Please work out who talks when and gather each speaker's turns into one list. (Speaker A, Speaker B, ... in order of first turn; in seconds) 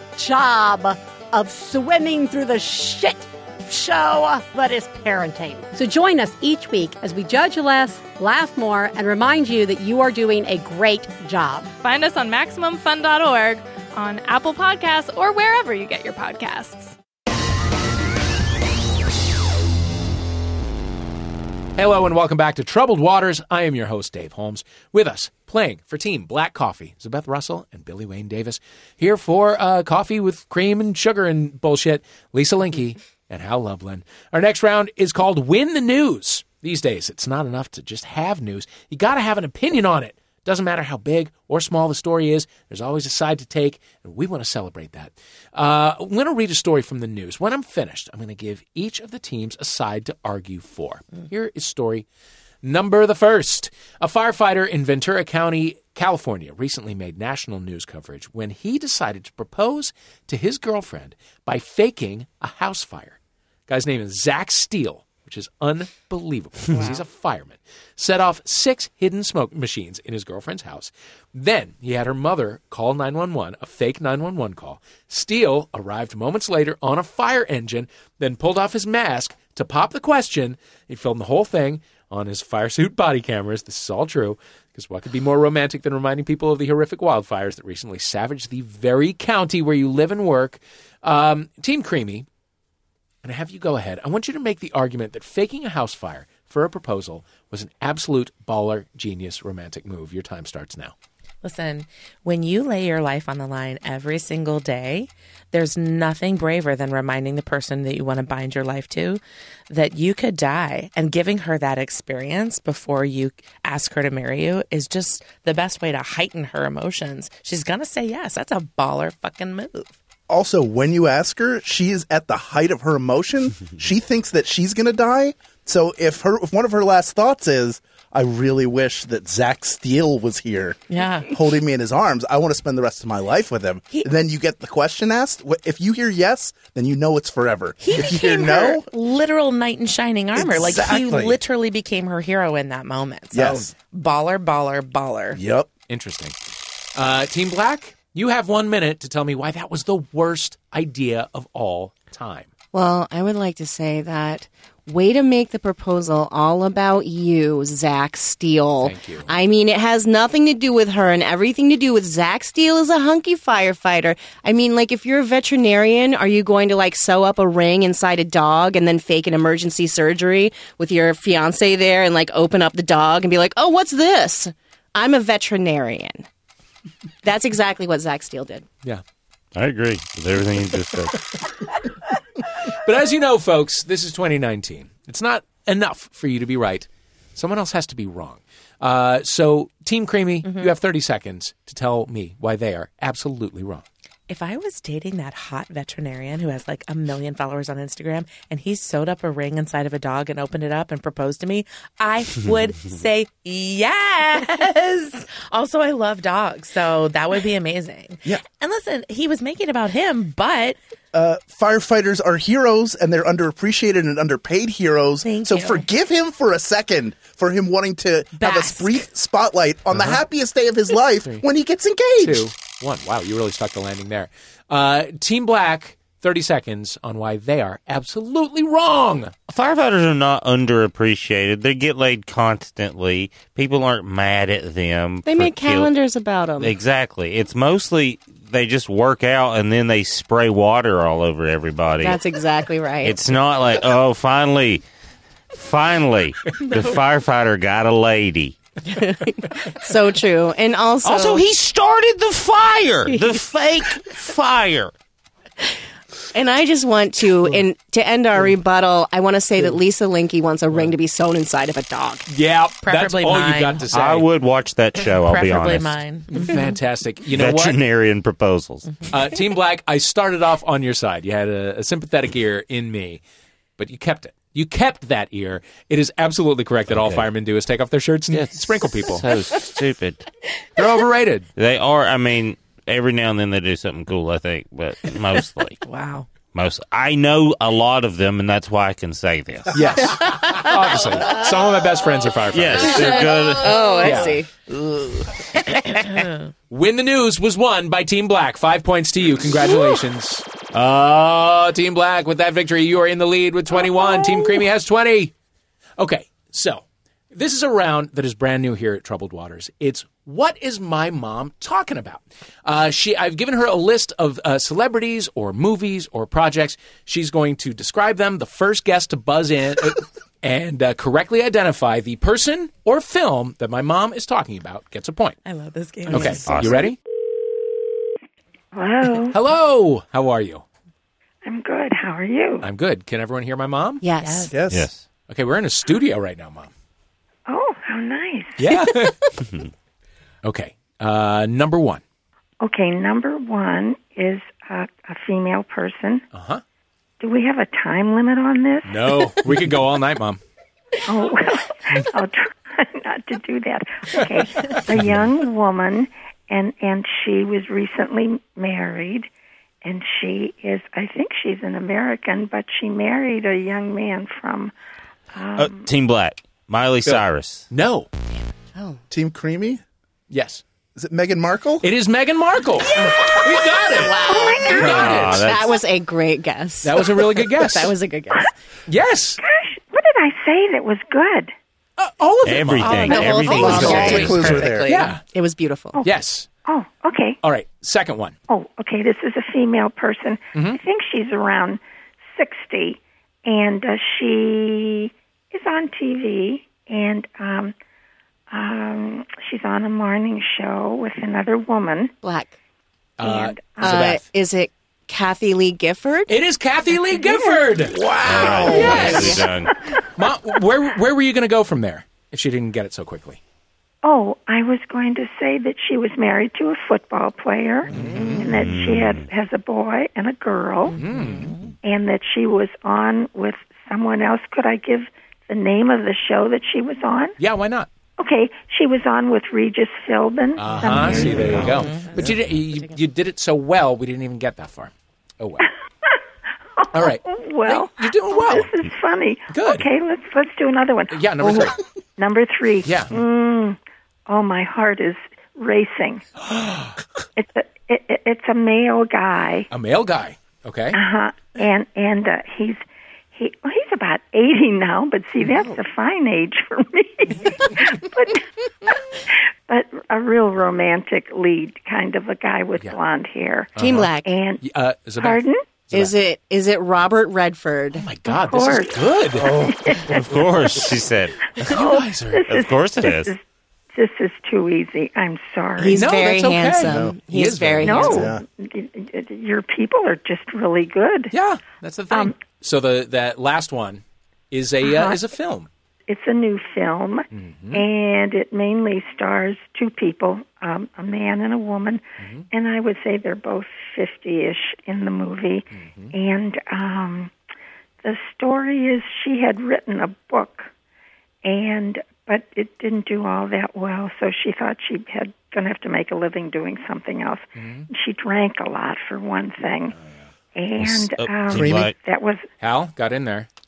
Speaker A: 0.2-11.7
Speaker B: 11.8-16.9
Speaker C: 21.8-52.0, 52.6-63.2, 63.7-92.3, 93.2-100.9, 145.9-146.3, 146.9-152.5, 158.8-159.3, 182.8-193.8, 219.9-220.2, 222.2-229.3, 262.3-264.3, 266.3-267.8, 269.1-273.2, 273.8-279.2, 280.8-281.5, 289.7-293.3, 293.9-294.4, 296.7-305.3, 306.0-325.4, 326.1-327.0, 329.3-330.6, 332.6-334.0, 335.3-336.7, 338.6-339.3, 340.4-342.0, 346.3-346.6, 348.9-350.4, 367.0-368.1, 370.3-370.6, 371.8-375.4, 376.8-377.9, 378.9-379.4, 382.0-385.2, 386.0-386.5, 387.4-388.3, 390.5-390.8, 403.2-404.2, 406.3-409.4, 410.1-413.4, 417.9-418.4, 420.9-421.5, 427.4-427.9, 430.6-435.7, 436.9-438.7, 439.5-439.9, 441.1-441.8, 442.8-443.1, 446.4-446.9, 449.7-451.0, 463.7-466.1, 467.9-470.8, 471.6-472.5, 475.9-478.3, 481.3-485.7, 487.3-487.9, 492.2-492.5, 495.7-496.1, 507.5-507.9, 512.6-513.5
Speaker D: 101.4-119.9, 130.9-131.3, 137.8-145.4, 194.3-210.8, 215.2-215.9, 218.4-219.1, 262.8-263.9, 265.2-266.5, 285.8-286.2, 295.9-296.5, 325.4-326.8, 334.2-334.5, 383.0-385.1, 421.2-421.5
Speaker E: 120.3-138.9, 140.3-141.4, 143.3-143.7, 145.3-145.7, 211.1-222.5, 294.7-295.3, 334.5-334.9, 369.1-369.8, 370.9-371.9, 383.5-385.0, 431.0-432.4, 469.4-469.9, 476.8-477.2, 478.0-478.4, 511.5-511.9
Speaker F: 152.7-176.3, 177.2-178.7, 235.2-236.7, 242.0-243.2, 248.9-251.5, 256.3-262.3, 292.9-294.5, 334.0-334.6, 368.3-369.0, 373.0-378.5, 383.1-384.1, 385.3-386.0, 402.2-402.5, 403.8-406.3, 408.3-409.5, 455.4-455.8, 463.8-464.3, 465.9-468.1, 475.8-478.3
Speaker G: 179.5-181.3, 229.5-235.9, 236.6-242.2, 243.0-244.8, 245.5-248.6, 251.0-254.9, 263.9-266.0, 267.3-269.0, 276.9-277.3, 278.3-280.3, 281.6-285.8, 286.5-290.1, 292.5-294.1, 326.1-326.9, 334.7-335.0, 365.6-367.7, 374.7-375.8, 382.4-384.7, 408.2-409.7, 418.5-419.3, 470.1-471.8, 472.4-473.3, 510.8-512.0
Speaker H: 328.7-329.4, 331.4-332.6, 337.5-338.6, 342.6-346.2, 347.2-349.2, 351.1-359.3, 359.8-364.7, 365.3-365.9, 374.2-375.1, 379.4-381.5, 386.6-387.4, 388.5-391.8, 392.3-397.7, 398.5-402.1, 403.2-403.9, 414.0-420.9, 421.8-427.4, 428.2-431.5, 436.8-446.2, 447.4-449.7, 450.9-452.8, 453.3-464.6, 465.2-465.6, 468.2-469.1, 469.6-470.1, 471.7-473.4, 473.9-476.0, 477.8-481.3, 484.8-485.2, 486.1-497.3, 498.0-500.7, 501.4-509.9, 510.5-512.4